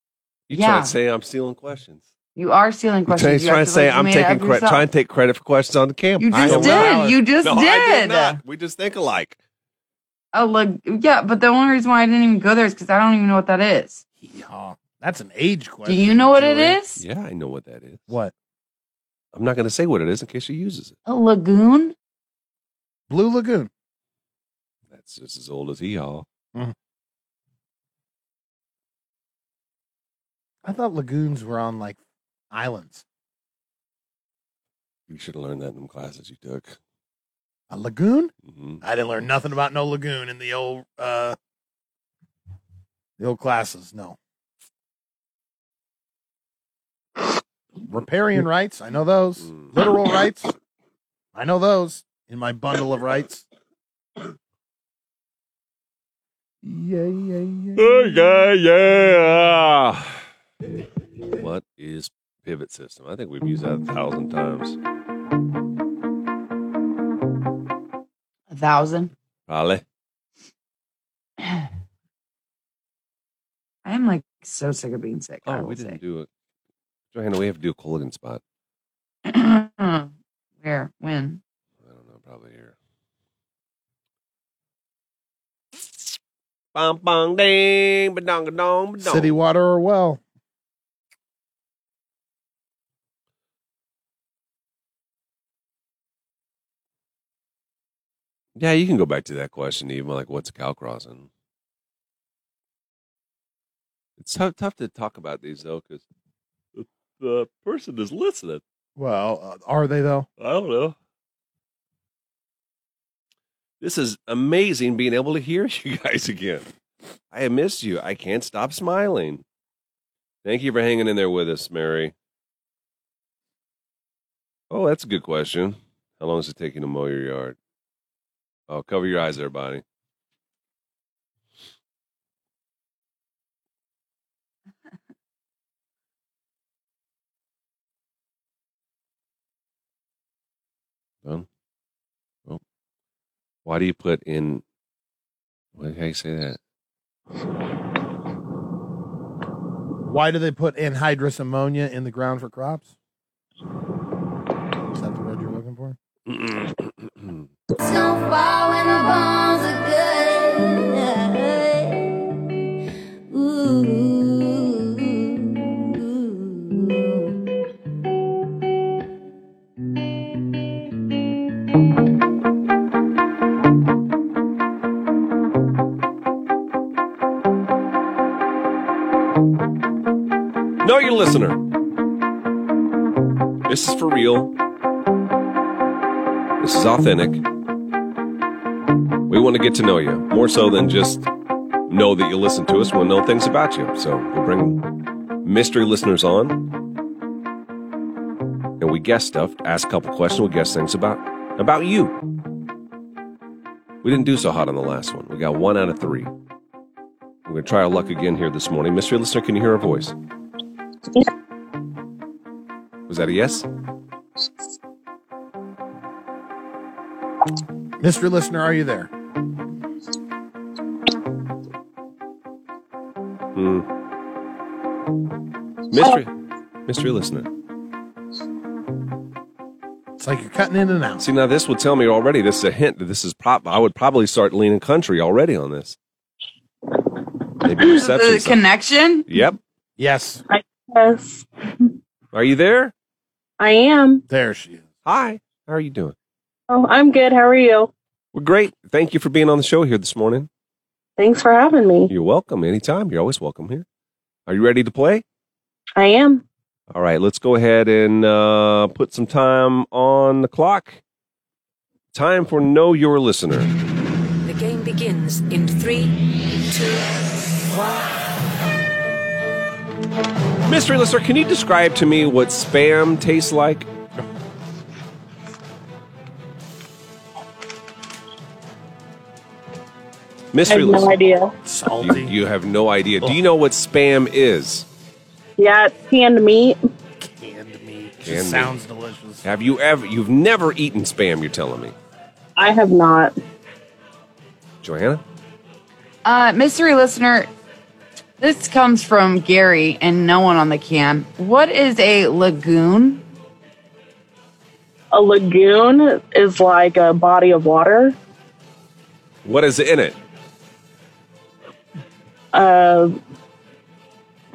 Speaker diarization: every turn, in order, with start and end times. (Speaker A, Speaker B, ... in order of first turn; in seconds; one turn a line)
Speaker A: 0.5-2.0
Speaker B: 0.5-0.9
Speaker B: 2.4-4.8
Speaker A: 3.1-9.4
Speaker B: 6.2-8.4
Speaker C: 6.3-7.2
Speaker B: 10.3-14.0
Speaker C: 14.2-16.8
Speaker B: 15.9-17.0
Speaker A: 17.0-18.1
Speaker C: 18.1-18.3
Speaker A: 19.3-20.9
Speaker B: 21.1-21.9
Speaker C: 23.1-23.7
Speaker A: 24.9-26.3
Speaker C: 30.6-32.0
Speaker C: 32.5-33.0
Speaker A: 35.1-36.8
Speaker C: 37.7-41.4
Speaker A: 38.5-38.8
Speaker C: 43.2-44.2
Speaker C: 47.8-50.5
Speaker C: 51.3-53.4
Speaker C: 56.6-58.0
Speaker A: 57.8-60.2
Speaker A: 61.3-64.8
Speaker B: 68.5-69.1
Speaker A: 69.5-69.8
Speaker B: 73.8-76.0
Speaker A: 75.4-76.3
Speaker A: 77.1-78.4
Speaker B: 79.2-81.4
Speaker A: 81.8-82.7
Speaker A: 86.7-89.4
Speaker C: 89.0-90.2
Speaker A: 98.5-101.3
Speaker A: 104.2-106.0
Speaker A: 106.7-108.6
Speaker C: 109.0-110.3
Speaker A: 110.4-111.0
Speaker A: 113.8-116.7
Speaker A: 117.3-119.4
Speaker A: 120.4-122.1
Speaker A: 124.7-127.5
Speaker A: 128.7-129.8
Speaker A: 143.6-144.6
Speaker A: 145.7-146.6
Speaker C: 150.0-152.9
Speaker C: 154.8-156.0
Speaker A: 156.3-157.4
Speaker D: 157.8-162.4
Speaker D: 163.3-167.4
Speaker A: 180.8-181.7
Speaker A: 183.6-184.5
Speaker A: 186.6-187.4
Speaker A: 189.3-191.3
Speaker A: 191.9-196.7
Speaker A: 198.8-202.2
Speaker A: 204.0-206.3
Speaker A: 207.4-210.1
Speaker A: 213.1-213.7
Speaker C: 218.0-219.1
Speaker A: 223.5-223.9
Speaker A: 225.9-226.3
Speaker A: 226.9-227.5
Speaker C: 230.2-231.2
Speaker A: 231.2-236.0
Speaker A: 237.6-238.6
Speaker B: 237.8-239.3
Speaker A: 239.3-239.6
Speaker C: 240.0-240.4
Speaker E: 240.5-241.9
Speaker A: 242.3-242.9
Speaker E: 243.6-244.2
Speaker C: 244.3-244.9
Speaker A: 245.0-246.2
Speaker E: 246.7-247.9
Speaker A: 248.3-250.5
Speaker E: 251.2-252.1
Speaker A: 252.1-253.9
Speaker A: 254.5-255.2
Speaker E: 256.0-256.4
Speaker A: 256.9-261.0
Speaker A: 262.1-263.7
Speaker F: 264.4-268.2
Speaker A: 270.6-273.9
Speaker A: 280.5-281.1
Speaker E: 280.7-281.6
Speaker C: 281.6-282.4
Speaker A: 282.0-284.9
Speaker E: 285.6-286.8
Speaker C: 287.2-289.4
Speaker A: 288.2-288.7
Speaker A: 289.4-291.9
Speaker E: 292.6-293.4
Speaker A: 294.8-295.2
Speaker B: 296.2-297.5
Speaker B: 298.4-303.2
Speaker E: 305.1-308.1
Speaker A: 309.4-310.2
Speaker E: 312.5-313.2